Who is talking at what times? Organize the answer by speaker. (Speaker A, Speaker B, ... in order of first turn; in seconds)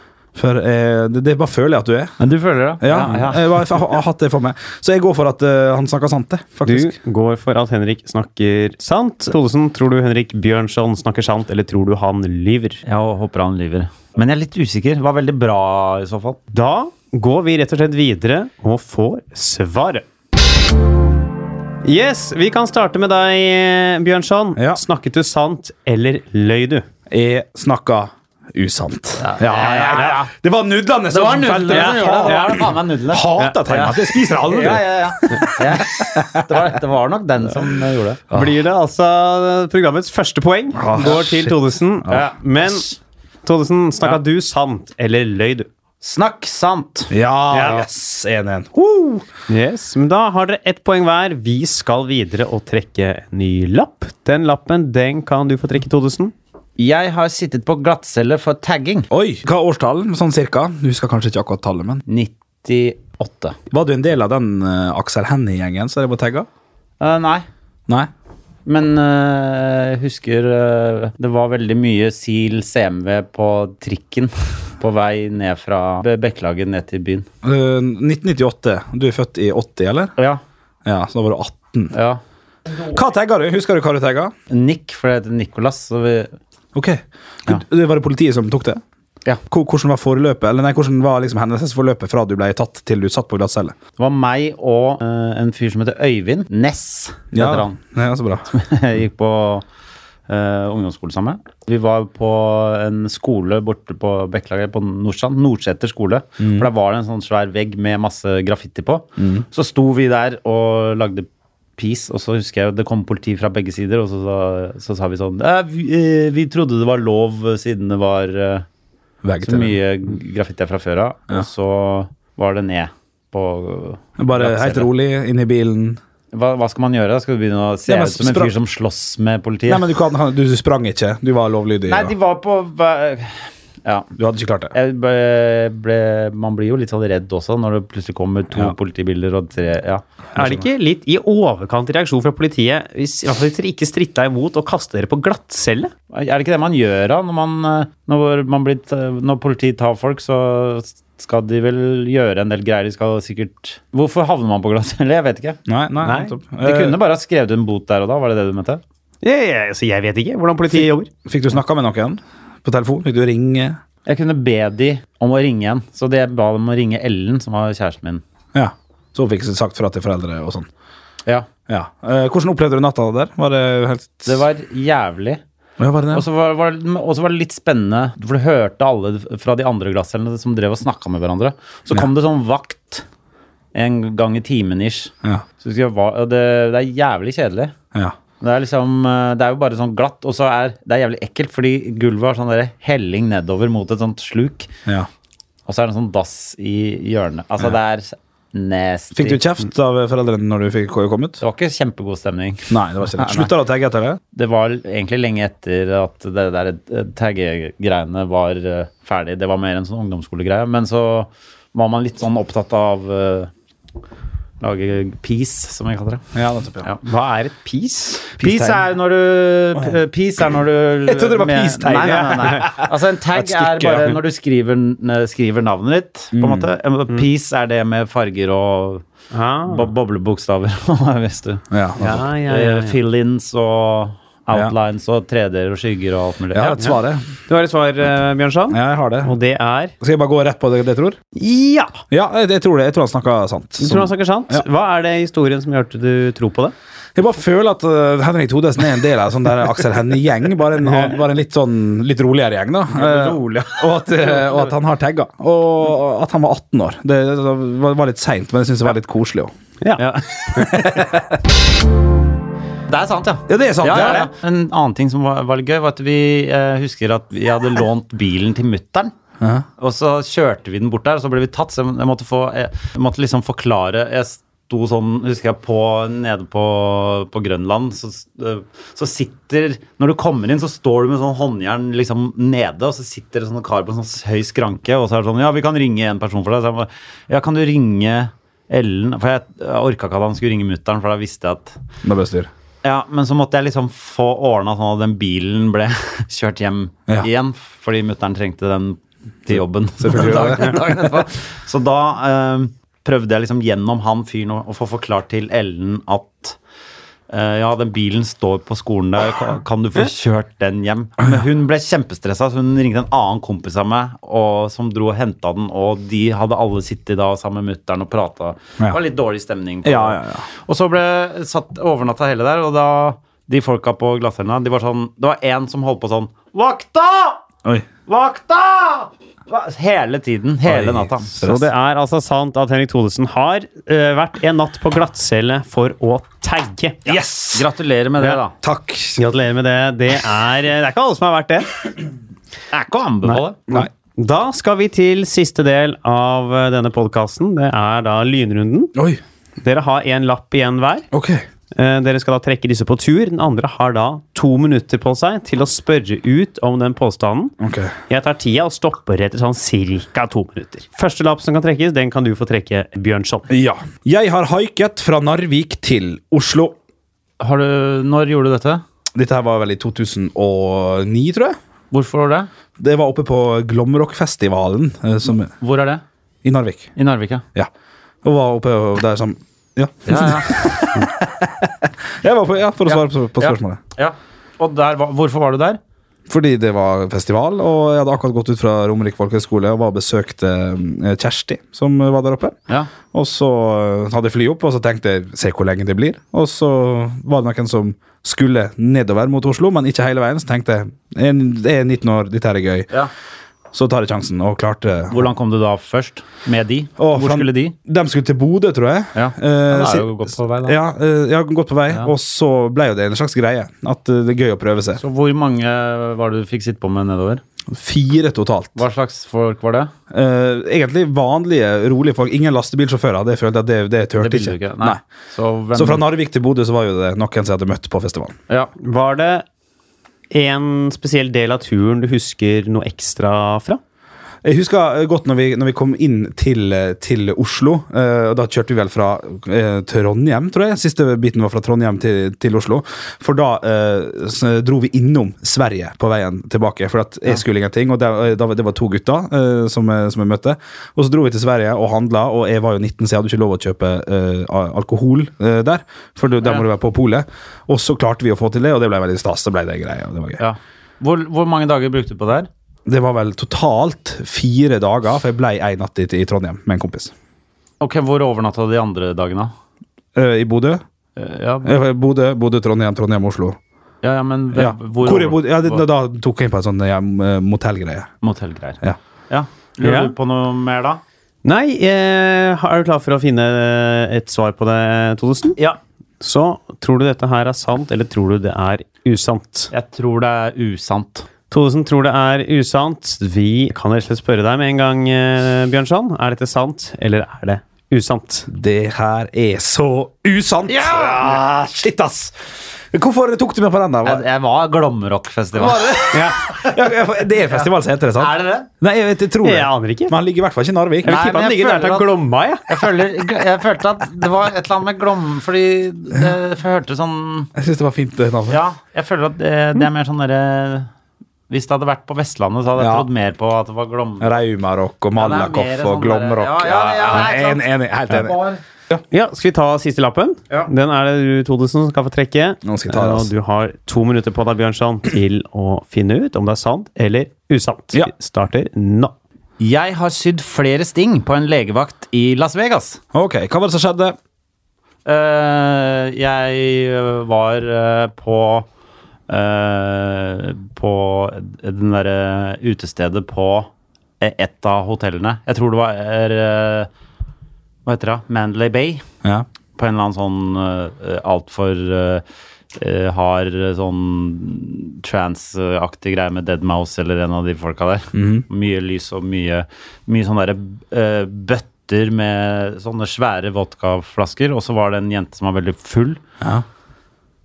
Speaker A: 0.3-2.1, 2.8-6.9, 24.6-24.8, 27.1-36.5, 40.7-42.2, 47.1-49.2, 59.1-62.0, 63.7-66.5, 77.4-80.1, 80.8-81.9, 82.9-84.3, 86.7-88.8, 89.5-93.8, 97.3-98.5, 106.4-106.7, 109.2-109.4, 119.2-119.8, 124.2-126.0, 127.9-128.5, 129.7-132.1, 134.2-134.7, 140.3-140.7, 155.7-157.0, 161.2-163.8, 168.5-170.7, 171.7-174.4, 175.8-176.2, 199.1-201.4, 202.7-204.2, 216.3-216.8, 218.4-218.8, 221.1-224.2, 226.3-226.7, 231.7-232.3, 236.5-237.2, 238.7-239.3, 240.0-241.2, 242.1-244.7, 247.2-259.5, 260.5-261.3, 263.5-264.3, 269.4-269.6, 292.0-292.5, 300.0-300.8, 319.8-320.4, 330.7-331.7, 337.1-337.7, 338.6-339.2, 348.9-349.2, 351.1-351.4, 357.6-357.9, 363.5-366.7, 369.1-371.6, 372.8-375.5, 376.4-376.9, 378.2-383.8, 386.3-402.9, 403.7-405.3, 407.0-410.1, 410.6-415.0, 417.7-418.8, 420.1-425.0, 425.7-428.4, 434.4-460.4, 462.9-467.1, 470.1-470.8, 471.6-473.6, 474.5-478.1, 498.5-504.2, 505.5-511.2, 517.5-518.6, 522.8-523.1, 524.2-528.4, 532.6-533.3, 543.1-544.2, 568.1-568.4
Speaker B: 2.2-3.9, 12.8-16.4, 29.2-30.3, 31.1-38.2, 42.1-42.9, 46.0-47.1, 56.8-59.1, 62.1-63.6, 67.0-67.5, 68.7-77.3, 81.9-82.2, 84.5-86.3, 94.0-97.8, 98.5-99.6, 100.3-118.7, 119.4-124.9, 126.3-129.9, 131.9-134.1, 134.7-140.0, 146.1-155.6, 156.6-158.8, 164.1-168.2, 174.2-175.4, 176.1-183.0, 183.7-187.7, 188.4-194.7, 195.7-199.4, 201.4-203.5, 204.3-213.5, 214.6-216.3, 218.4-229.0, 229.7-231.6, 232.4-236.9, 252.9-254.7, 262.9-269.1, 269.8-291.8, 292.8-306.6, 307.3-327.4, 328.1-331.4, 337.1-338.6, 342.7-343.6, 367.4-368.8, 371.9-372.5, 375.6-376.0, 376.9-377.4, 380.0-380.7, 382.9-385.8, 405.1-407.7, 409.1-410.8, 415.0-417.4, 418.7-419.9, 424.2-426.1, 460.4-462.5, 467.8-469.5, 471.1-471.8, 474.0-475.8, 478.2-481.0, 489.7-491.3, 500.7-501.4, 504.0-506.8, 507.4-508.7, 511.0-512.1, 512.7-517.5, 518.5-520.9, 521.5-524.4, 525.1-528.6, 539.6-543.0, 545.0-548.7, 549.3-556.9, 557.9-559.0, 559.8-576.2
Speaker C: 6.7-12.8, 16.5-20.0, 21.8-26.8, 29.8-30.1, 31.7-32.6, 38.3-42.8, 43.4-45.7, 47.5-47.9, 49.5-56.3, 140.3-145.9, 156.0-156.3, 159.2-161.1, 217.0-218.2, 229.3-229.8, 232.0-232.9, 237.5-239.9, 241.3-242.0, 243.8-246.7, 259.8-260.9, 331.4-337.0, 339.2-342.0, 343.2-348.9, 349.6-351.1, 351.7-357.5, 358.1-363.5, 428.8-429.4, 430.3-433.8, 479.8-480.1, 481.4-485.6, 486.2-489.7, 491.5-498.5, 506.1-506.4, 509.4-510.1, 511.0-512.9, 529.1-539.1